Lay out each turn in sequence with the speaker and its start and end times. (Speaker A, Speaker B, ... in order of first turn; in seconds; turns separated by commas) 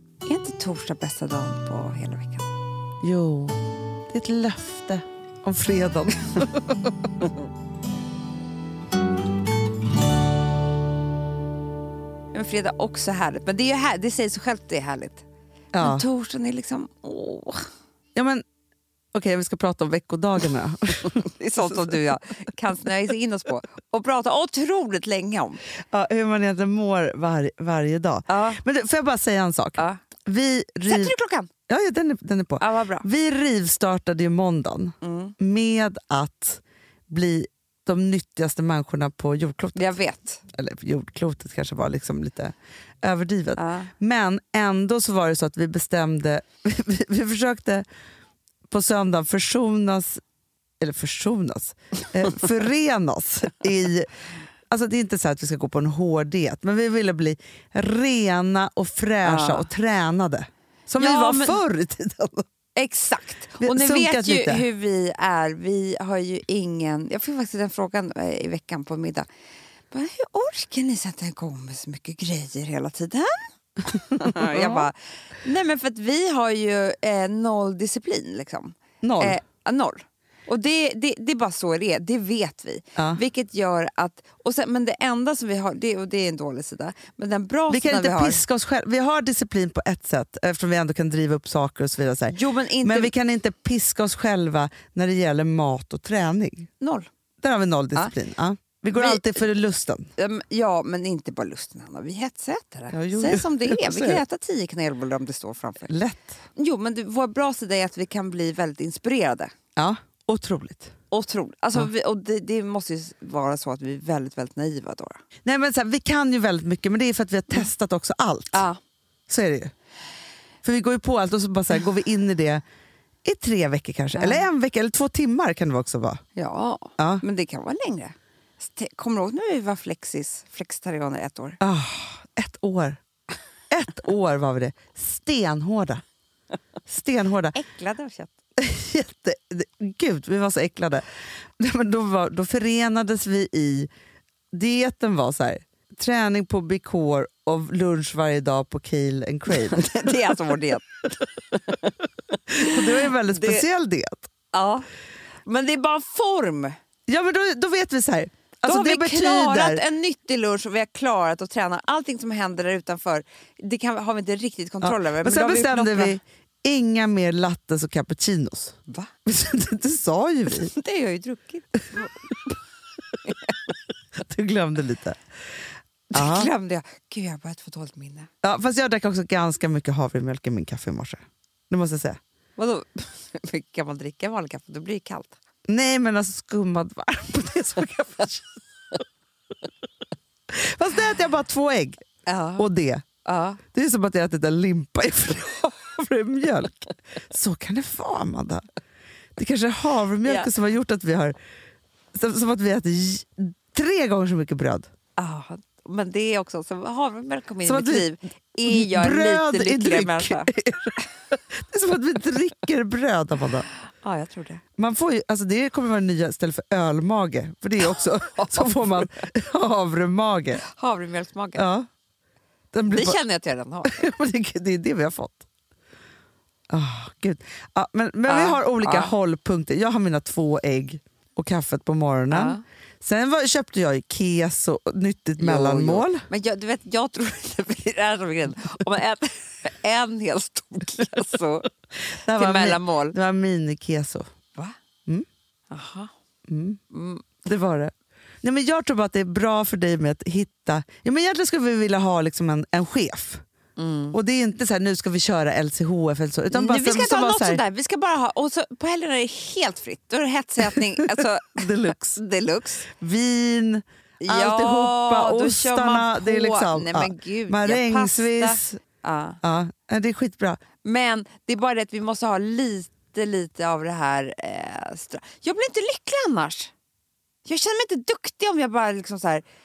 Speaker A: 0.2-2.5, Speaker B: 3.0-3.6, Speaker B: 4.1-6.9, Speaker A: 12.3-15.2, Speaker B: 15.7-16.1, Speaker A: 15.8-17.6, Speaker B: 18.1-18.4, Speaker B: 19.1-22.0, Speaker A: 21.2-25.6, Speaker B: 25.9-31.1, Speaker A: 28.3-28.6, Speaker A: 29.8-30.0, Speaker A: 30.9-31.5, Speaker B: 31.7-40.0, Speaker A: 32.6-33.1, Speaker A: 35.0-35.3, Speaker A: 39.8-40.4, Speaker B: 40.5-47.8, Speaker A: 43.6-43.9, Speaker B: 48.7-50.2, Speaker B: 50.8-54.1, Speaker B: 54.7-62.4, Speaker A: 59.2-59.7, Speaker A: 61.0-61.6, Speaker A: 62.8-69.3, Speaker B: 63.6-64.6, Speaker A: 69.9-88.4, Speaker B: 74.1-74.8, Speaker B: 79.0-79.4, Speaker B: 83.0-83.2, Speaker B: 87.7-96.7, Speaker A: 92.3-93.1, Speaker A: 96.8-97.1, Speaker B: 97.4-100.1, Speaker A: 98.9-99.5, Speaker A: 100.2-105.9, Speaker B: 102.9-104.2, Speaker B: 105.9-106.3, Speaker A: 106.5-109.5, Speaker B: 109.8-110.9, Speaker A: 111.1-115.2, Speaker B: 115.4-118.7, Speaker A: 118.5-118.8, Speaker B: 119.3-119.7, Speaker B: 120.6-122.6, Speaker B: 123.2-126.2, Speaker A: 124.1-124.5, Speaker A: 126.3-131.6, Speaker B: 127.0-127.2, Speaker B: 131.6-133.0, Speaker B: 133.7-136.0, Speaker B: 136.9-137.6, Speaker A: 137.5-138.3, Speaker B: 138.6-141.0, Speaker B: 141.6-143.9, Speaker B: 144.5-149.9, Speaker A: 149.5-151.9, Speaker A: 152.5-153.7, Speaker B: 152.6-154.3, Speaker A: 154.5-154.9, Speaker A: 155.4-156.8, Speaker B: 157.1-159.8, Speaker A: 158.6-166.2, Speaker B: 164.8-170.7, Speaker A: 170.5-172.6, Speaker A: 173.2-173.7, Speaker B: 174.2-175.2, Speaker B: 176.1-176.5, Speaker A: 176.1-178.3, Speaker B: 178.4-182.2, Speaker A: 182.6-185.4, Speaker B: 185.7-188.6, Speaker B: 190.5-192.0, Speaker A: 192.2-192.7, Speaker B: 192.6-193.1, Speaker A: 193.2-193.6, Speaker B: 193.7-198.6, Speaker B: 199.4-201.4, Speaker A: 200.2-200.5, Speaker B: 202.1-204.9, Speaker A: 205.2-210.5, Speaker B: 207.6-208.1, Speaker B: 208.6-213.7, Speaker A: 214.0-214.6, Speaker B: 214.8-220.6, Speaker A: 217.8-219.3, Speaker A: 220.6-221.6, Speaker B: 221.6-221.9, Speaker B: 222.7-223.2, Speaker A: 222.9-224.1, Speaker B: 223.8-225.4, Speaker B: 226.7-236.2, Speaker A: 228.3-229.1, Speaker A: 232.3-232.6, Speaker A: 235.4-241.7, Speaker B: 242.2-244.3, Speaker A: 242.3-243.2, Speaker A: 245.7-246.1, Speaker B: 246.5-246.8, Speaker A: 246.9-247.2, Speaker B: 247.4-247.9, Speaker B: 248.4-253.4, Speaker A: 253.8-254.2, Speaker B: 254.1-257.6, Speaker A: 256.5-262.9, Speaker B: 261.5-262.2, Speaker B: 262.9-268.8, Speaker A: 264.2-269.4, Speaker B: 269.4-270.6, Speaker A: 270.8-276.7, Speaker A: 277.4-279.4